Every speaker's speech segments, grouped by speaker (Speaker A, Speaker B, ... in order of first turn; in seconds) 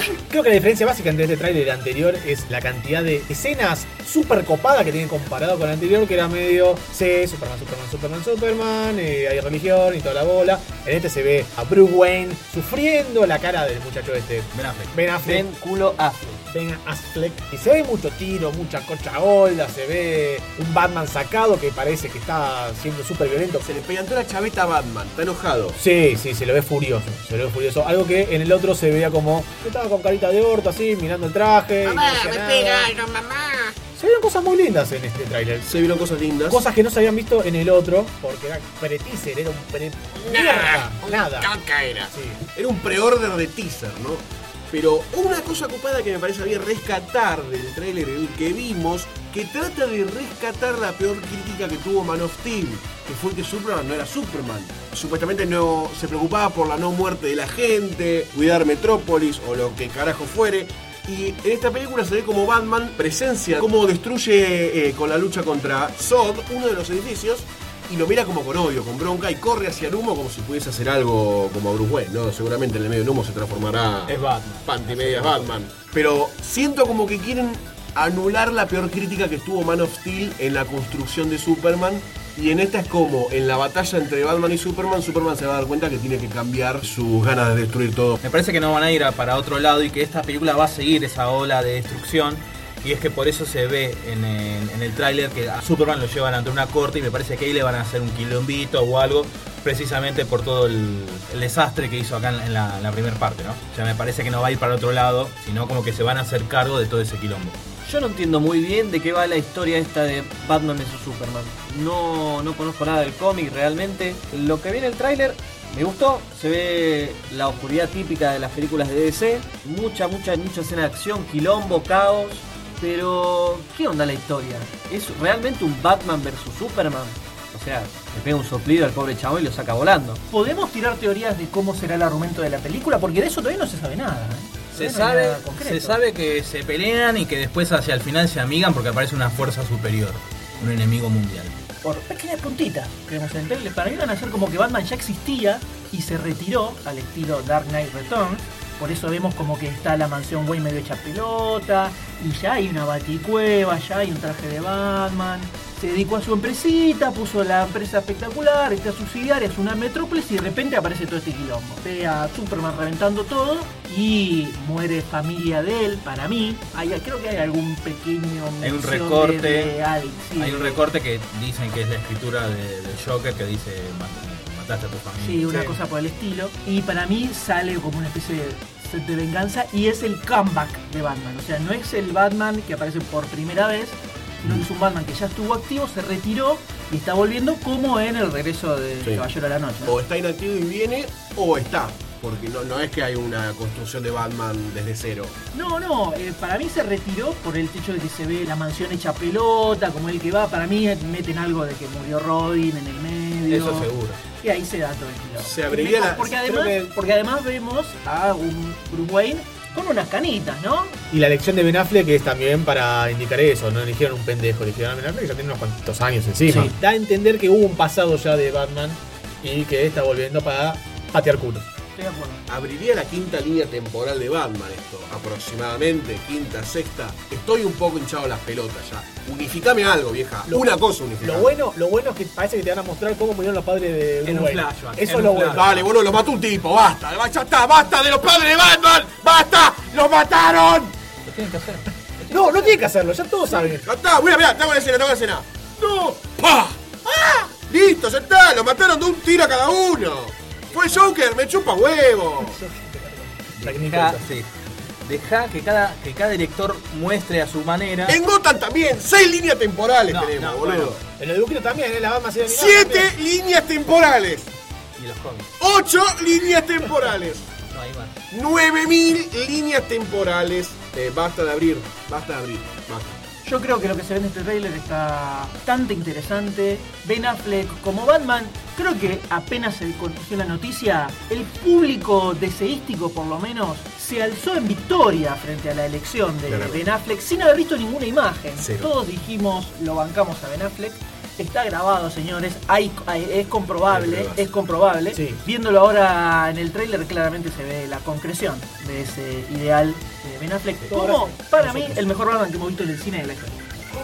Speaker A: 0.3-15.5, 16.5-23.7, 25.7-32.9, 33.9-35.8, 36.5-41.5, 42.1-42.4, 175.5-175.8, 206.4-206.9, 211.1-221.7, 230.5-235.8, 242.3-243.9, 252.4-254.2, 261.2-263.1, 295.1-295.4, 300.8-302.0
Speaker B: 14.5-14.9, 74.0-75.6, 88.2-107.6, 134.7-141.6, 168.6-169.7, 170.4-175.5, 203.5-204.2, 234.2-235.9, 241.2-242.8, 250.7-251.0, 253.6-254.5, 255.0-258.2, 260.1-260.9, 265.0-265.5, 267.7-268.2
Speaker C: 15.2-16.4, 107.8-130.2
Speaker D: 23.6-25.8, 31.8-33.7, 35.6-36.6, 40.2-88.2, 189.0-189.2, 189.8-195.3, 205.4-206.3, 222.5-231.5, 235.6-240.9, 243.6-252.6, 258.1-261.0, 262.4-264.5, 265.6-267.5, 268.3-273.2, 286.5-286.8, 288.6-288.9, 293.9-294.5
Speaker E: 130.3-136.0, 141.8-170.8, 175.2-189.9, 195.5-210.9, 221.9-222.4, 273.4-303.9